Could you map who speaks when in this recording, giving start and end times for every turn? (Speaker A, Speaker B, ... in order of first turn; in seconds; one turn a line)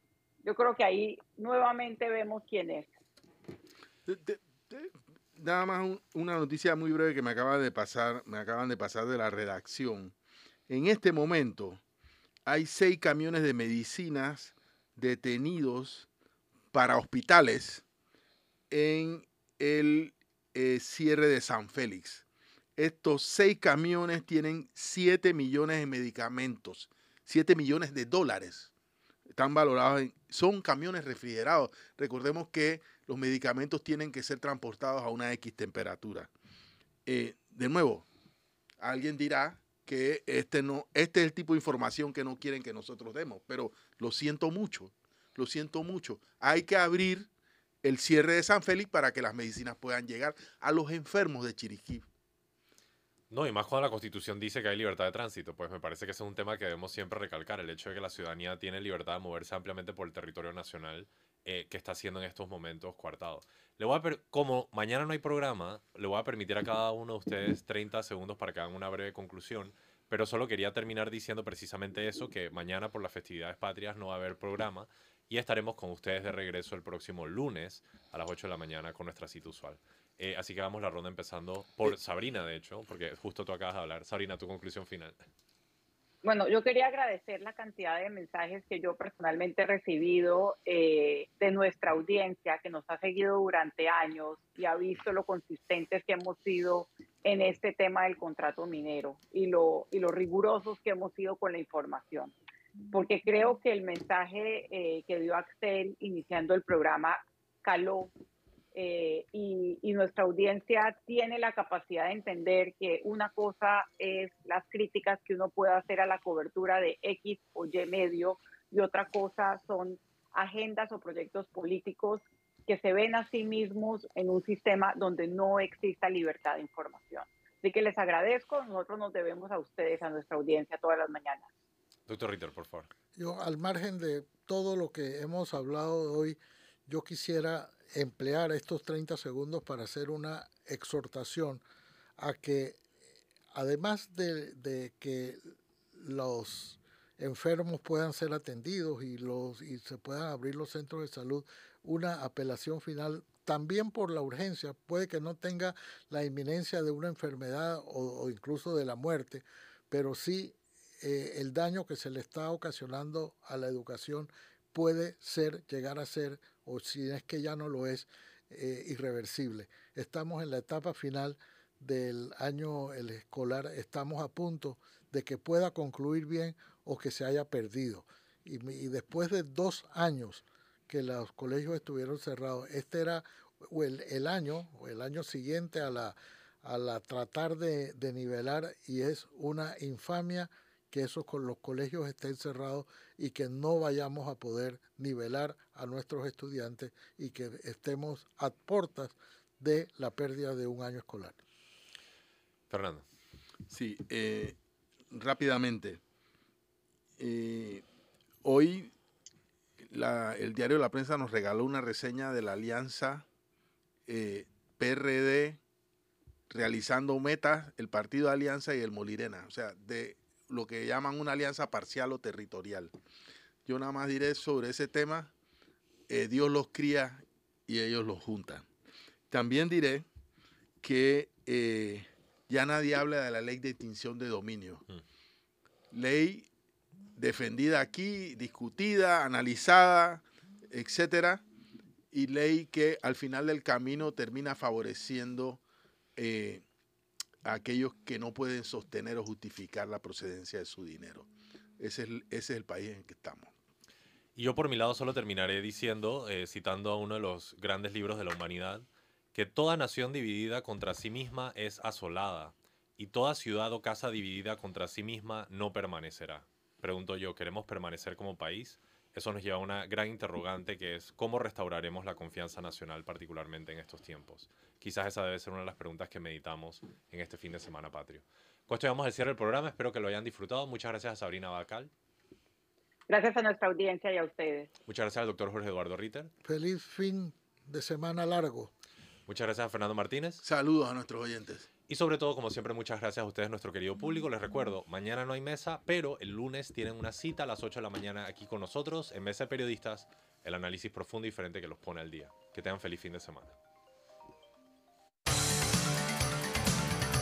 Speaker A: 0.4-2.9
Speaker B: 4.1-10.1
Speaker B: 10.7-11.8
Speaker B: 12.5-16.1
Speaker B: 16.7-17.8
Speaker B: 18.7-22.2
Speaker B: 22.8-28.7
Speaker B: 29.4-36.3
Speaker B: 37.1-38.1
Speaker B: 38.8-47.3
Speaker B: 47.8-52.0
Speaker C: 53.3-85.2
Speaker A: 86.2-102.3
Speaker A: 102.9-108.1
Speaker A: 108.7-131.5
Speaker C: 132.1-132.9
Speaker D: 133.2-141.6
Speaker D: 142.2-142.8
Speaker D: 143.5-145.4
Speaker D: 146.0-201.4
Speaker C: 202.7-203.1
Speaker B: 203.7-204.6
Speaker B: 205.1-206.0
Speaker B: 207.2-207.8
Speaker B: 208.4-208.9
Speaker B: 209.9-213.2
Speaker B: 214.1-215.6
Speaker B: 216.5-222.9
Speaker B: 223.7-225.3
Speaker B: 226.1-228.7
Speaker B: 229.3-230.1
Speaker B: 230.8-234.8
Speaker B: 235.9-236.5
Speaker B: 237.2-241.4
Speaker B: 242.1-245.6
Speaker B: 246.2-246.6
Speaker B: 247.4-251.3
Speaker B: 251.8-253.5
Speaker C: 254.4-281.9
Speaker A: 283.1-284.7
Speaker C: 284.9-286.3
Speaker D: 286.4-288.7
Speaker C: 289.3-290.4
Speaker B: 290.4-291.7
Speaker C: 291.9-303.6